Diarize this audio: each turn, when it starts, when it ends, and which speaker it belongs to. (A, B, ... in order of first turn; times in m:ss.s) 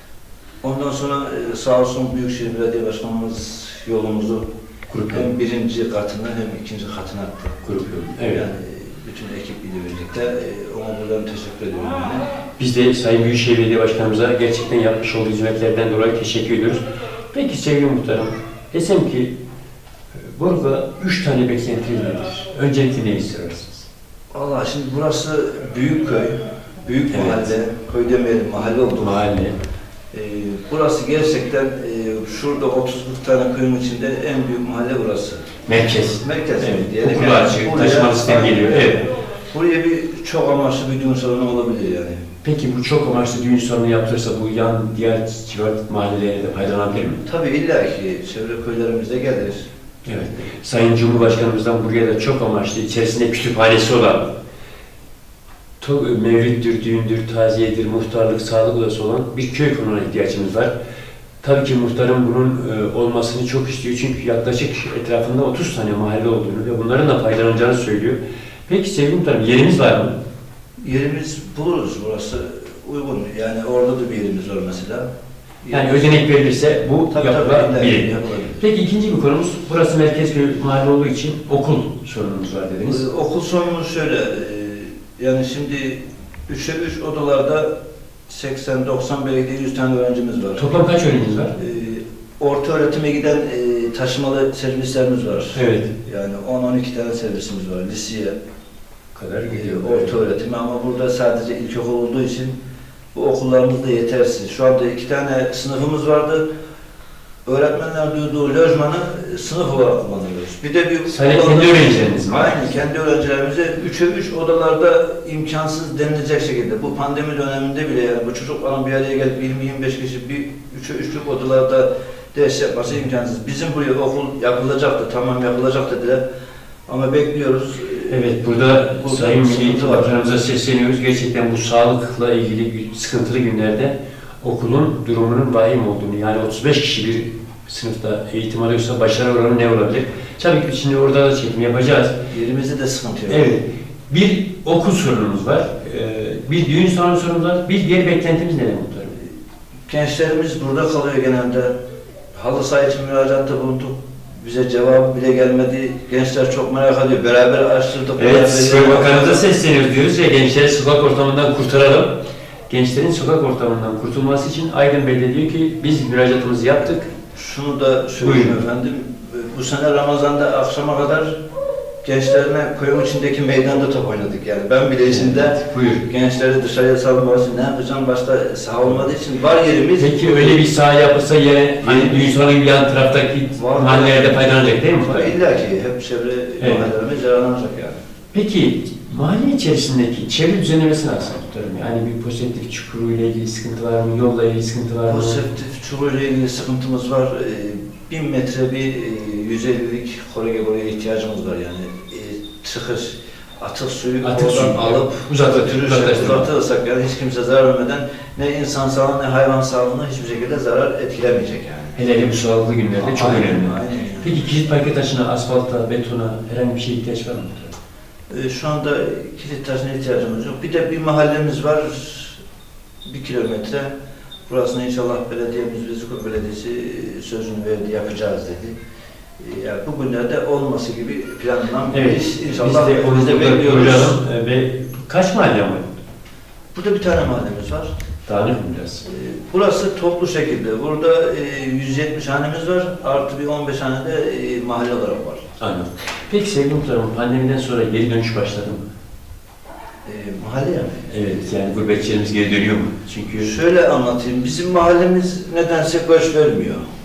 0:00.6-0:04.5 A
0:04.9-0:05.3 B
0:05.1-0:07.6 A
0:07.6-0:08.4 B
0:08.3-0:12.2 A
0:12.6-0:19.3 B
0:20.1-0:23.9 B
0:24.3-0:29.2 A
0:27.1-0:27.5 B
0:29.0-0:29.6 B
0:30.1-0:35.5 A
0:35.6-0:39.0 B
0:36.2-0:42.2 A
0:42.4-0:47.2 B
0:47.2-0:49.7 A
0:50.0-0:54.3 B
0:55.8-1:00.7 B
1:01.4-1:10.2 B
1:10.8-1:15.1 A
1:15.6-1:16.3 A
1:15.7-1:23.0 B
1:17.1-1:18.6 A
1:22.8-1:27.7 A
1:28.3-1:30.9 A
1:30.6-1:31.5 B
1:31.5-1:38.4 A
1:35.5-1:35.9 B
1:39.1-1:40.2 B
1:39.5-1:42.6 A
1:43.1-1:46.4 A
1:47.4-2:06.2 A
1:51.1-1:52.6 B
2:06.9-2:10.5 A
2:08.1-2:22.2 B
2:22.3-2:23.5 A
2:23.3-2:29.2 B
2:29.9-2:31.8 A
2:32.3-2:39.5 A
2:38.2-2:42.2 B
2:42.7-2:47.1 B
2:47.3-2:51.4 A
2:48.2-2:48.6 B
2:52.0-3:00.7 A
2:55.0-2:56.1 B
3:00.0-3:05.3 B
3:01.8-3:02.4 A
3:03.6-3:08.0 A
3:06.6-3:06.9 B
3:08.3-3:15.5 B
3:15.0-3:32.0 A
3:24.2-3:26.5 B
3:32.0-3:37.8 B
3:33.0-3:34.4 A
3:38.3-3:42.4 A
3:43.0-3:43.9 A
3:44.5-3:48.8 A
3:49.4-3:54.2 A
3:51.9-3:56.0 B
3:56.7-3:57.9 A
3:58.2-3:59.0 B
3:59.0-4:05.4 A
4:05.6-4:08.8 B
4:10.0-4:11.1 A
4:11.1-4:13.5 B
4:13.4-4:16.8 A